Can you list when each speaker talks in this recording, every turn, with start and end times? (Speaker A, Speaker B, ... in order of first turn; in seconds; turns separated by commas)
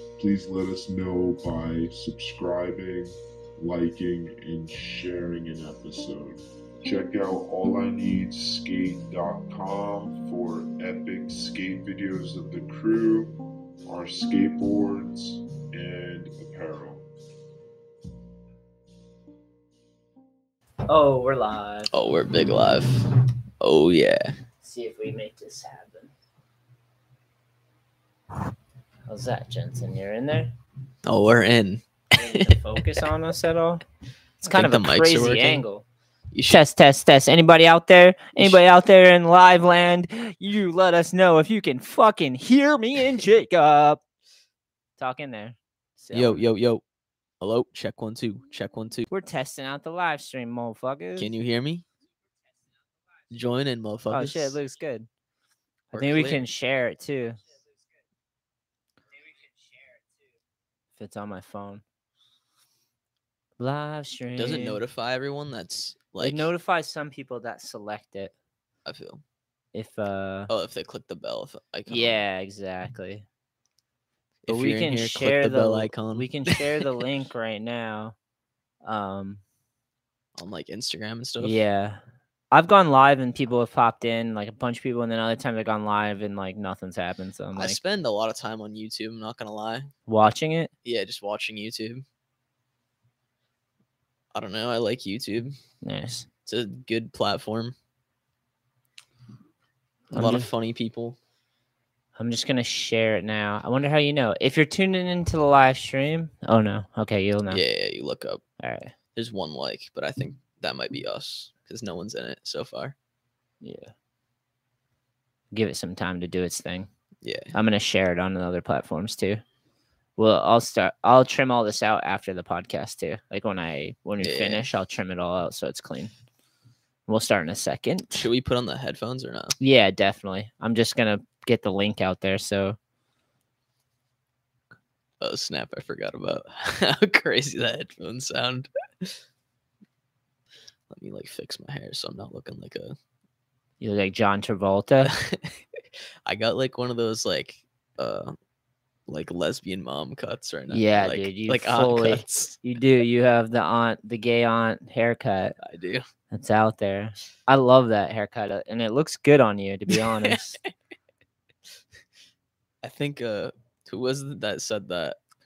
Speaker A: 0.2-13.3, Speaker A: 13.8-17.0, Speaker B: 20.9-21.9, Speaker C: 21.9-24.3, Speaker B: 24.6-26.1, Speaker B: 29.1-30.5, Speaker C: 31.0-33.0, Speaker B: 32.1-33.8, Speaker B: 34.4-35.8, Speaker C: 34.5-35.6, Speaker C: 36.3-36.6, Speaker B: 36.5-44.0, Speaker B: 45.0-46.4, Speaker C: 46.1-46.8, Speaker C: 47.4-49.1, Speaker B: 49.1-51.3, Speaker C: 51.2-51.8, Speaker C: 53.3-54.6, Speaker B: 54.1-55.1, Speaker B: 55.9-57.4, Speaker C: 55.9-56.4, Speaker B: 61.0-61.8, Speaker B: 63.6-64.8, Speaker C: 64.4-66.5, Speaker B: 66.2-68.3, Speaker C: 68.8-69.2, Speaker B: 69.7-70.5, Speaker C: 70.5-72.2, Speaker B: 71.9-73.2, Speaker C: 74.4-77.0, Speaker B: 74.5-78.1, Speaker B: 78.8-79.4, Speaker C: 80.3-81.6, Speaker B: 81.4-82.0, Speaker B: 82.5-87.8, Speaker C: 87.5-89.9, Speaker B: 90.1-90.7, Speaker C: 90.8-92.0, Speaker C: 94.3-95.5, Speaker B: 95.8-96.2, Speaker C: 96.5-97.7, Speaker B: 100.1-100.5, Speaker C: 100.1-101.2, Speaker B: 102.2-107.6, Speaker C: 107.5-108.4, Speaker B: 108.6-108.9, Speaker C: 109.2-112.9, Speaker B: 113.6-113.9, Speaker B: 115.5-116.9, Speaker C: 117.2-117.5, Speaker B: 117.5-119.4, Speaker B: 120.2-126.1, Speaker C: 124.2-124.7, Speaker B: 127.1-128.2, Speaker C: 128.1-129.6, Speaker B: 129.6-132.8, Speaker C: 135.2-139.1, Speaker C: 140.9-142.9, Speaker B: 143.8-145.1, Speaker C: 145.1-145.6, Speaker C: 146.2-148.3, Speaker C: 149.1-152.6, Speaker B: 150.7-155.6, Speaker C: 155.6-156.0, Speaker B: 156.3-160.6, Speaker C: 159.9-160.7, Speaker C: 162.8-165.2